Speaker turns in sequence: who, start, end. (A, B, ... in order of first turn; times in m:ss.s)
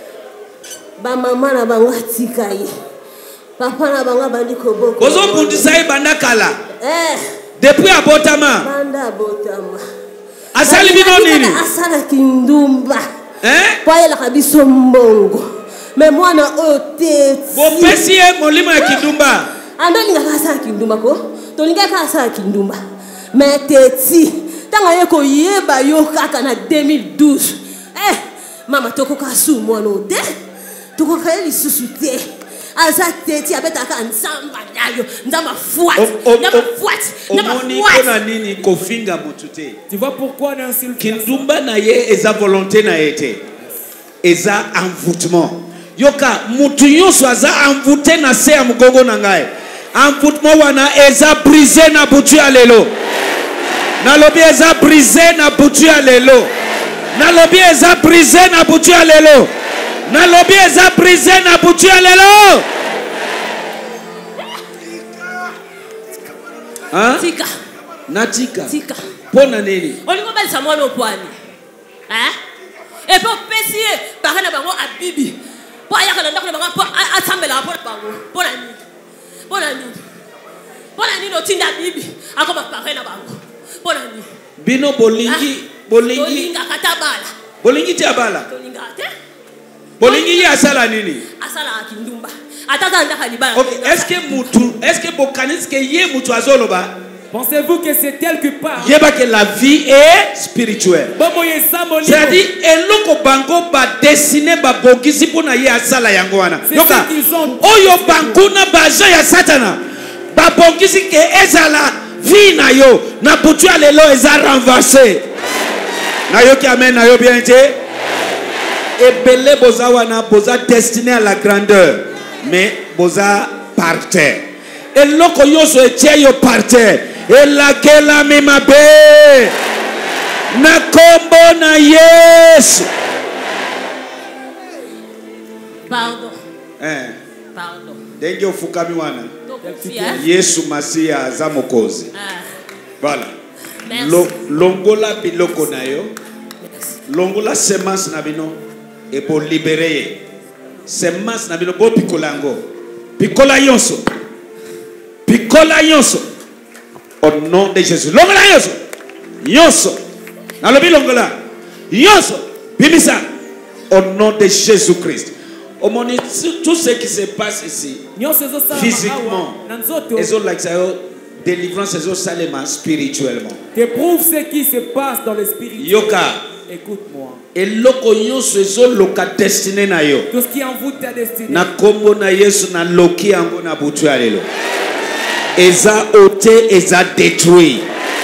0:01.0-0:02.7 A
0:03.6-0:05.8 A
0:05.0-0:06.6 B
0:06.8-0:07.2 A
0:07.6-0:08.7 B
0:08.6-0:09.8 A
0:10.5-0:11.6 B
0:10.6-0:13.0 A
0:13.4-0:13.8 B
0:13.8-0:18.0 A
0:17.5-0:19.5 B
0:18.8-0:19.1 A
0:19.8-0:22.8 A
0:23.3-0:30.3 A
0:31.0-0:32.2 A
0:32.8-0:38.2 A
0:36.0-0:36.7 B
0:37.3-0:39.8 B
0:39.9-0:41.4 C
0:41.0-0:43.4 B
0:44.2-0:52.9 B
0:54.0-0:56.5 B
0:57.1-0:59.5 B
1:00.1-1:02.6 B
1:06.9-1:07.3 B
1:07.2-1:07.5 A
1:08.1-1:08.7 B
1:08.7-1:09.0 A
1:09.3-1:10.0 B
1:10.0-1:11.3 A
1:12.1-1:12.4 A
1:13.1-1:15.4 A
1:15.9-1:18.8 A
1:19.5-1:20.0 A
1:21.0-1:24.3 A
1:24.6-1:26.5 B
1:25.3-1:25.5 A
1:26.1-1:27.3 A
1:27.6-1:28.5 B
1:28.5-1:29.1 A
1:30.0-1:30.8 A
1:30.0-1:31.2 B
1:31.4-1:34.7 A
1:33.5-1:37.0 B
1:37.3-1:38.9 C
1:38.8-1:41.2 B
1:41.2-1:42.4 C
1:42.0-1:49.8 B
1:46.7-1:48.4 C
1:50.3-1:55.2 B
1:56.3-1:57.8 B
1:59.0-2:09.5 B
2:10.5-2:12.9 B
2:15.9-2:16.4 A
2:16.8-2:17.2 B
2:17.6-2:18.0 A
2:18.2-2:19.3 B
2:19.5-2:20.2 A
2:19.6-2:20.3 C
2:20.1-2:22.1 B
2:22.1-2:22.5 A
2:23.0-2:23.3 B
2:23.8-2:24.4 A
2:23.9-2:26.1 B
2:26.6-2:27.0 A
2:27.1-2:28.6 B
2:29.1-2:30.2 B
2:30.9-2:32.7 B
2:33.2-2:34.1 B
2:35.3-2:36.3 B
2:37.2-2:38.8 B
2:39.4-2:40.0 B
2:40.6-2:41.4 B
2:41.9-2:43.2 B
2:43.9-2:48.0 B
2:48.2-2:50.3 C
2:48.7-2:49.6 B
2:50.2-2:53.6 B
2:53.8-2:57.4 C
2:55.8-2:56.4 B
2:57.5-3:00.3 B
3:00.3-3:01.7 C
3:01.5-3:04.5 B
3:05.6-3:07.9 B